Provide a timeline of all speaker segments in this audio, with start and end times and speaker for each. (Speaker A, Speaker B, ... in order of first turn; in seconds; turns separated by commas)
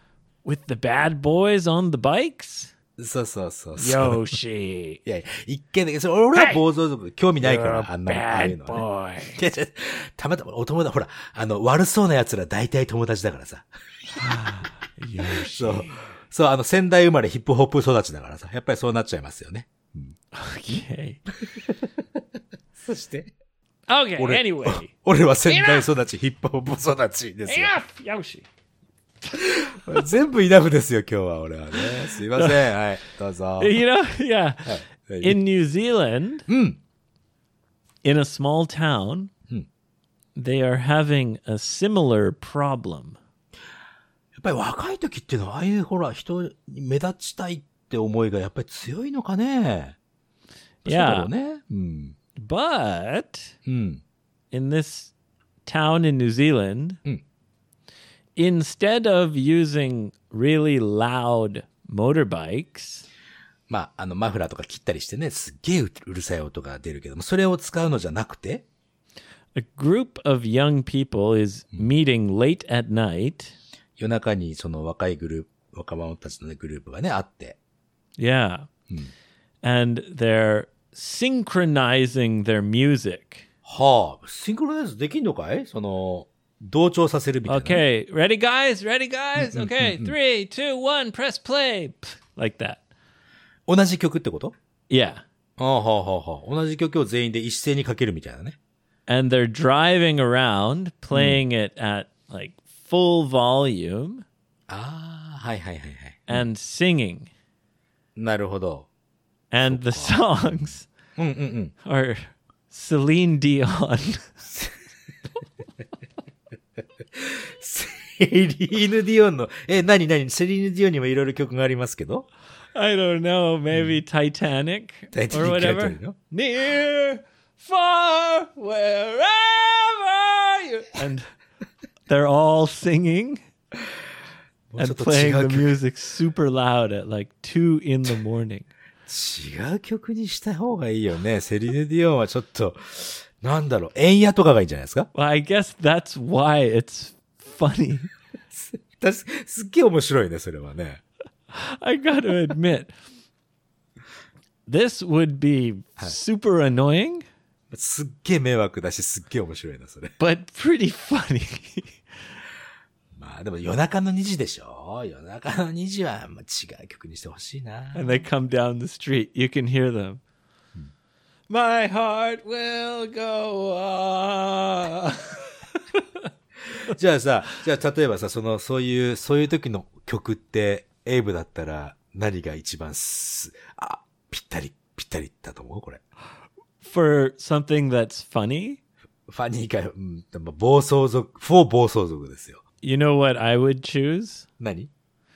Speaker A: 0.4-2.7, Speaker B: 3.0-4.3, Speaker A: 3.8-5.0, Speaker B: 5.0-14.5, Speaker A: 6.3-6.6, Speaker A: 7.4-9.4, Speaker A: 14.2-16.0, Speaker B: 15.2-20.1, Speaker A: 20.3-21.2, Speaker B: 21.4-21.7, Speaker B: 22.7-23.3, Speaker A: 23.9-24.9, Speaker B: 24.2-27.8, Speaker A: 25.4-25.9, Speaker A: 27.4-28.5, Speaker B: 29.3-33.8, Speaker A: 31.7-32.6, Speaker A: 33.6-36.5, Speaker B: 34.6-35.4, Speaker B: 36.5-36.8, Speaker A: 38.0-39.3, Speaker A: 40.4-43.2, Speaker B: 44.3-50.0, Speaker A: 50.8-51.3, Speaker B: 50.8-52.1, Speaker A: 52.4-53.5, Speaker B: 53.6-54.0, Speaker A: 54.5-55.1, Speaker A: 55.6-57.0, Speaker A: 58.4-63.0, Speaker B: 63.7-68.6, Speaker A: 69.5-73.5, Speaker B: 74.0-77.6, Speaker A: 78.2-78.7, Speaker A: 79.6-83.5, Speaker B: 83.6-87.8, Speaker A: 87.5-92.8, Speaker B: 89.3-90.1, Speaker B: 93.7-94.5, Speaker A: 94.9-95.2, Speaker B: 95.6-98.6, Speaker A: 99.1-104.2, Speaker B: 101.1-101.4, Speaker B: 104.7-106.5, Speaker A: 106.3-107.3, Speaker B: 108.2-108.9, Speaker A: 109.5-110.9, Speaker B: 109.6-111.7, Speaker A: 111.8-114.5, Speaker B: 117.1-122.2, Speaker A: 122.7-131.3, Speaker B: 125.1-126.2, Speaker A: 132.1-133.4, Speaker B: 134.7-135.8, Speaker A: 134.8-138.7, Speaker B: 139.1-145.1, Speaker A: 145.1-148.1, Speaker B: 148.5-151.0, Speaker A: 151.5-152.9, Speaker A: 154.7-157.2, Speaker B: 157.7-160.1, Speaker A: 160.2-162.0, Speaker B: 163.1-168.2, Speaker A: 167.9-170.2, Speaker A: 171.5-175.4, Speaker B: 176.8-186.0, Speaker A: 186.8-188.8, Speaker B: 189.3-192.6, Speaker A: 192.8-194.4, Speaker B: 194.6-194.9